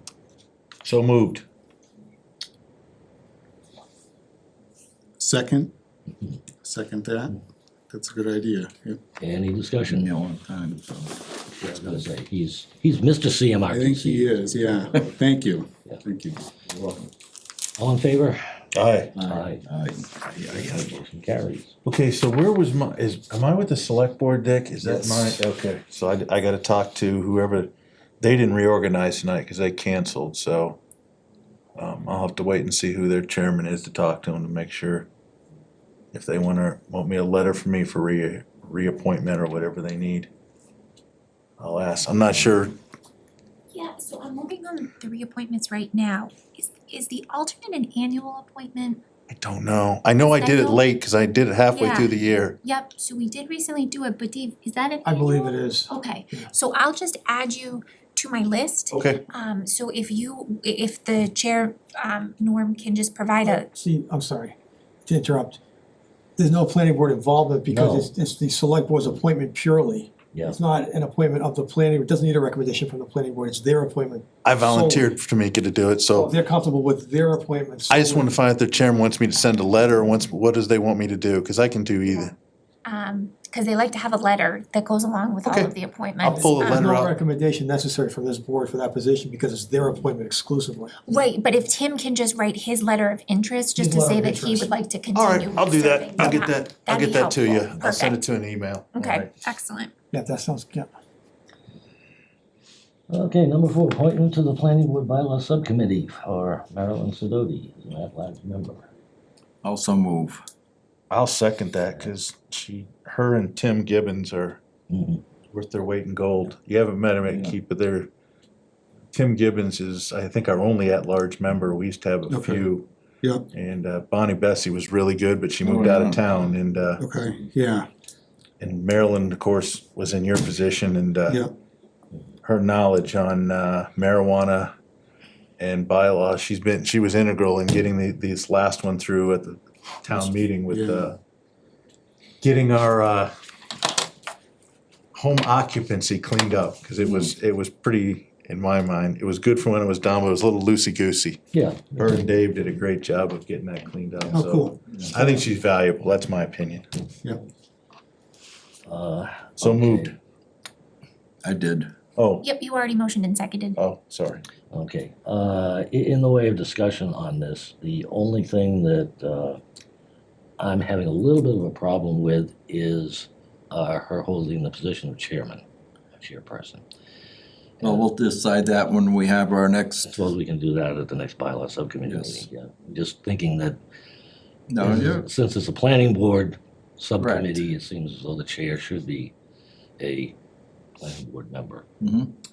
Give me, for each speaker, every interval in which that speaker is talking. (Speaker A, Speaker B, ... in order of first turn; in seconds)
Speaker A: 0.8-1.4, 18.7-19.1, 21.8-30.8, 31.8-35.1, 36.1-40.3, 41.6-42.7, 49.3-52.6, 58.9-59.2, 74.4-76.3, 77.9-82.3, 85.4-87.1, 95.1-99.3, 111.1-114.6, 115.5-118.1, 119.1-122.9, 123.5-127.0, 128.6-131.4, 132.4-134.7, 135.6-141.2, 142.4-143.3, 145.1-156.9, 159.6-160.1, 162.2-162.5, 163.8-164.4
Speaker B: 5.2-5.7, 6.6-7.3, 7.9-9.0, 13.7-16.5, 122.3-122.7, 127.0-127.9, 140.1-141.1
Speaker C: 9.2-10.1, 11.7-15.1, 17.8-18.4, 19.2-19.6, 20.3-21.7, 67.7-68.1, 70.3-70.6, 103.1-108.8, 114.9-115.2, 151.5-152.2, 158.8-160.2, 164.7-169.6, 170.6-175.6, 176.2-176.8, 180.0-183.8, 184.8-189.3, 190.0-190.3, 191.0-191.8
Speaker D: 9.8-11.1, 16.6-17.1, 19.1-20.9, 24.8-25.4, 109.6-110.4, 117.2-117.5, 125.6-126.2, 161.4-161.9, 177.8-180.3, 182.0-182.5, 184.7-185.2, 187.2-187.6, 192.0-192.3
Speaker E: 43.7-49.0, 50.3-50.8, 51.7-63.7, 82.8-87.0, 91.0-98.2, 98.9-99.9, 162.4-163.8
Speaker F: 55.0-56.5, 63.4-64.5, 65.0-65.6, 66.4-75.1, 76.1-78.3, 86.3-91.2, 93.8-94.7, 100.1-100.9, 154.3-154.8